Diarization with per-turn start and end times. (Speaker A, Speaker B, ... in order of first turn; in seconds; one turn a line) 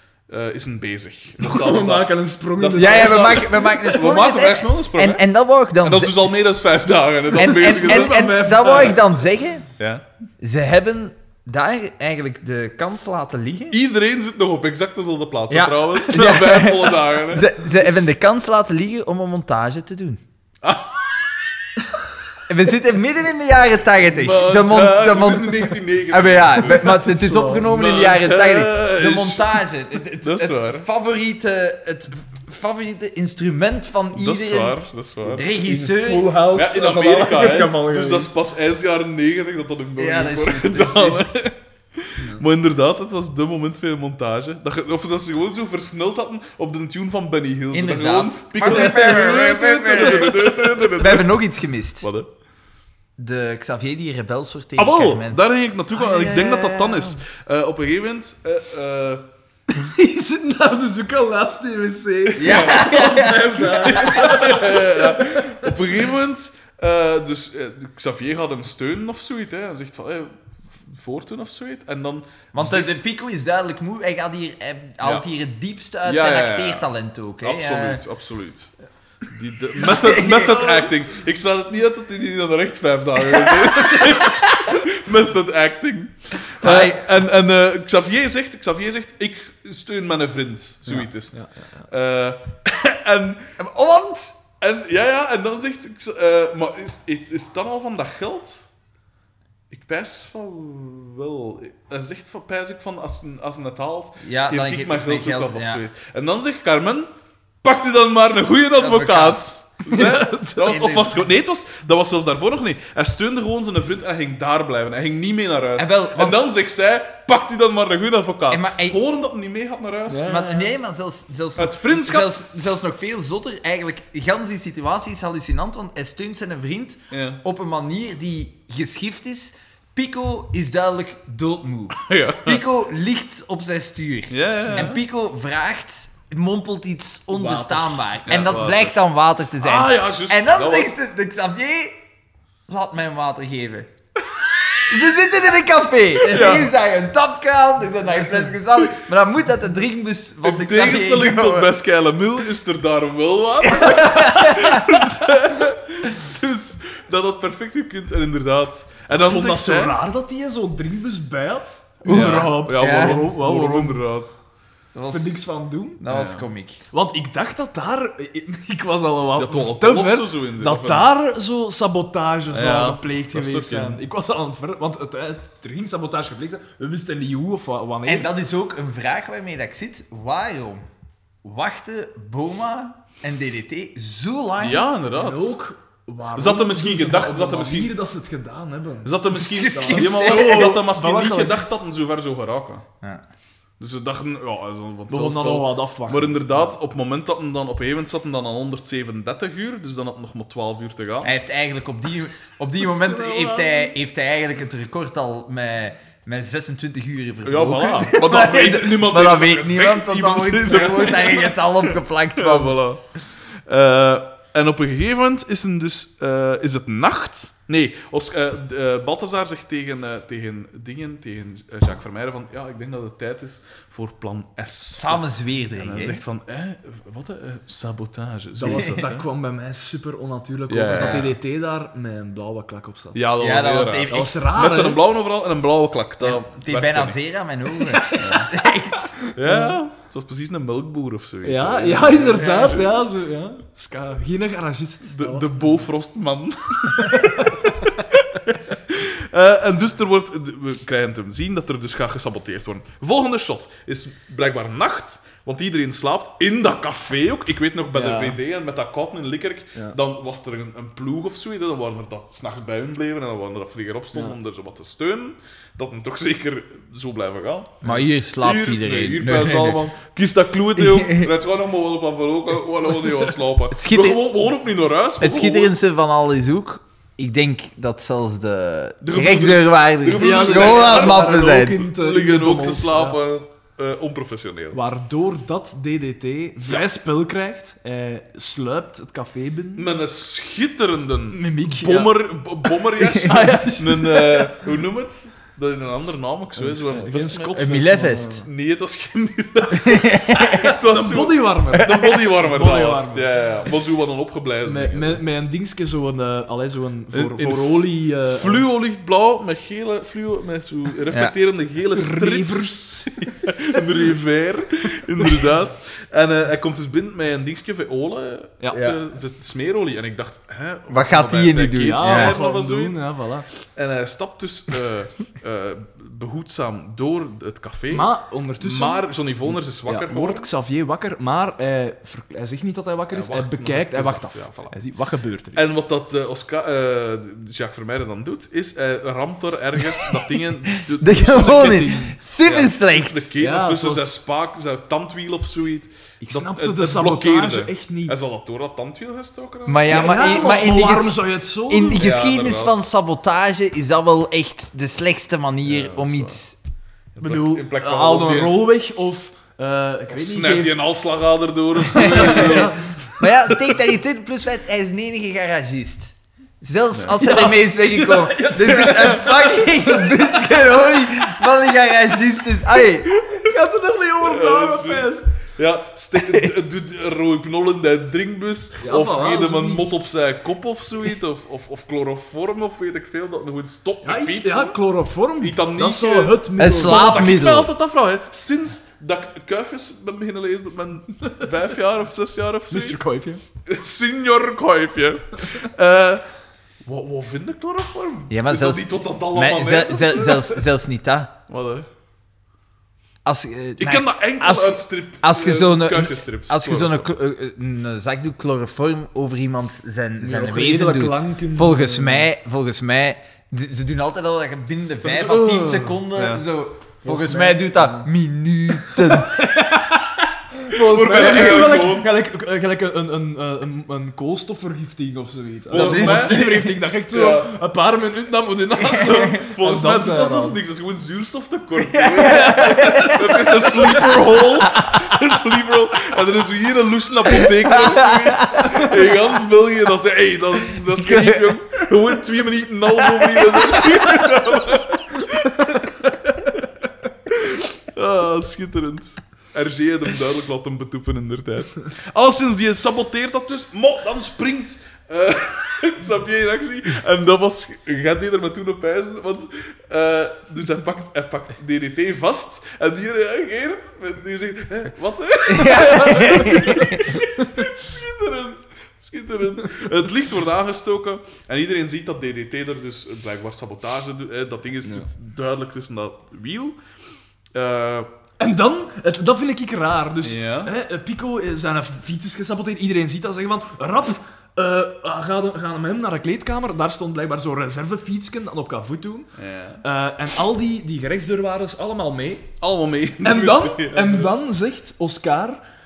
Speaker A: 0.3-5.3
Speaker B: 1.4-4.0
Speaker C: 2.8-6.3
Speaker A: 5.8-8.2
Speaker C: 7.3-9.7
Speaker B: 7.3-9.0
Speaker A: 9.8-10.1
Speaker C: 10.4-13.8
Speaker A: 13.7-17.5
Speaker C: 15.5-20.2
Speaker A: 20.6-21.7
Speaker C: 22.5-34.8
Speaker A: 24.1-27.1
Speaker B: 26.7-27.7
Speaker A: 27.6-29.6
Speaker A: 30.2-30.9
Speaker A: 34.1-35.5
Speaker B: 35.3-38.4
Speaker C: 35.3-36.4
Speaker A: 36.5-51.4
Speaker C: 40.0-41.4
Speaker C: 47.7-52.1
Speaker B: 48.9-49.1
Speaker A: 52.0-52.3
Speaker C: 53.2-55.4
Speaker A: 54.8-59.3
Speaker C: 55.9-57.2
Speaker B: 59.7-65.8
Speaker C: 62.4-64.3
Speaker A: 62.4-63.0
Speaker A: 63.8-73.0
Speaker C: 72.5-78.0
Speaker A: 75.0-75.3
Speaker A: 76.0-76.9
Speaker A: 77.4-78.7
Speaker A: 79.3-93.5
Speaker C: 79.8-80.8
Speaker C: 83.7-84.7
Speaker C: 86.6-87.0
Speaker B: 90.9-91.8
Speaker C: 93.6-94.4
Speaker A: 94.6-98.7
Speaker A: 99.7-107.1
Speaker C: 104.2-105.8
Speaker A: 107.6-120.4
Speaker C: 108.8-111.2
Speaker B: 109.9-110.7
Speaker C: 115.8-116.5
Speaker C: 118.5-119.0
Speaker B: 120.1-120.7
Speaker C: 120.2-142.0
Speaker A: 121.6-122.4
Speaker A: 127.1-127.4
Speaker A: 132.0-132.6
Speaker A: 134.3-135.0
Speaker B: 137.3-138.0
Speaker A: 138.3-139.0
Speaker A: 139.6-140.9
Speaker C: 142.7-143.9
Speaker C: 144.8-151.7
Speaker B: 146.2-146.6
Speaker A: 146.2-146.7
Speaker A: 150.4-160.0
Speaker C: 153.7-155.0
Speaker B: 159.1-164.1
Speaker A: 162.1-164.4
Speaker C: 162.1-163.2
Speaker C: 164.9-165.4
Speaker B: 165.1-166.0
Speaker C: 166.0-166.8
Speaker A: 166.1-166.5
Speaker B: 166.9-178.3
Speaker A: 169.3-171.1
Speaker A: 172.5-174.0
Speaker C: 178.1-180.8
Speaker C: 181.4-184.9
Speaker A: 184.6-185.6
Speaker B: 185.1-191.6
Speaker A: 186.3-187.9
Speaker A: 189.0-192.8
Speaker C: 189.3-190.7
Speaker A: 193.8-201.3
Speaker B: 195.1-196.8
Speaker C: 201.2-212.8
Speaker B: 202.8-203.9
Speaker A: 207.4-225.2
Speaker C: 224.9-226.2
Speaker A: 225.8-229.2
Speaker B: 228.6-233.2
Speaker C: 228.7-229.1
Speaker A: 230.7-231.3
Speaker C: 231.0-231.3
Speaker A: 233.1-237.2
Speaker C: 233.4-234.3
Speaker B: 234.1-235.0
Speaker C: 236.2-239.1
Speaker B: 237.8-239.8
Speaker A: 238.2-238.5
Speaker A: 239.3-243.0
Speaker B: 241.4-245.9
Speaker C: 242.4-242.8
Speaker A: 245.1-247.6
Speaker B: 247.0-248.0
Speaker A: 248.1-275.8
Speaker B: 257.9-258.4
Speaker C: 267.8-269.8
Speaker C: 270.8-271.3
Speaker C: 273.7-274.4
Speaker C: 275.2-281.8
Speaker A: 279.0-284.8
Speaker B: 280.1-283.2
Speaker B: 284.7-289.9
Speaker A: 289.8-297.7
Speaker B: 291.3-294.6
Speaker B: 296.6-298.5
Speaker C: 297.6-298.4
Speaker A: 298.4-305.2
Speaker C: 299.7-300.7
Speaker B: 300.7-303.3
Speaker C: 301.7-302.1
Speaker B: 304.6-308.6
Speaker A: 307.1-323.0
Speaker B: 311.9-313.3
Speaker B: 318.6-318.9
Speaker C: 320.9-322.4
Speaker B: 321.8-323.5
Speaker A: 323.7-330.5
Speaker B: 327.9-335.6
Speaker A: 333.1-334.8
Speaker A: 335.5-341.9
Speaker C: 340.7-343.3
Speaker B: 341.2-342.2
Speaker A: 342.4-350.1
Speaker B: 343.4-344.2
Speaker B: 346.2-348.2
Speaker C: 349.7-356.6
Speaker B: 349.9-352.1
Speaker A: 352.0-352.8
Speaker A: 355.6-356.4
Speaker A: 357.1-358.6
Speaker B: 357.2-360.8
Speaker A: 360.1-362.8
Speaker B: 361.9-362.9
Speaker C: 362.0-373.1
Speaker A: 366.9-367.3
Speaker B: 367.2-370.2
Speaker B: 373.1-375.4
Speaker A: 374.2-384.8
Speaker B: 378.8-379.9
Speaker B: 384.0-387.3
Speaker A: 385.4-393.0
Speaker C: 386.6-387.7
Speaker B: 392.7-393.4
Speaker A: 393.7-396.2
Speaker A: 396.9-400.6
Speaker C: 398.3-401.3
Speaker A: 401.5-401.9
Speaker C: 403.2-419.4
Speaker A: 403.8-407.1
Speaker B: 410.2-412.3
Speaker A: 415.0-416.4
Speaker B: 417.1-418.1
Speaker B: 418.9-430.6
Speaker A: 420.7-422.1
Speaker A: 425.7-426.5
Speaker C: 425.7-426.7
Speaker A: 427.1-427.5
Speaker C: 428.9-429.4
Speaker A: 429.3-445.6
Speaker C: 431.9-434.7
Speaker B: 432.2-433.9
Speaker C: 437.4-438.9
Speaker C: 440.9-441.8
Speaker C: 443.1-444.0
Speaker A: 447.3-476.8
Speaker C: 465.5-467.2
Speaker B: 465.6-467.5
Speaker A: 477.5-478.1
Speaker B: 478.4-489.3
Speaker A: 480.2-480.7
Speaker A: 489.4-489.8
Speaker B: 489.8-492.5
Speaker A: 492.6-494.3
Speaker B: 493.2-495.6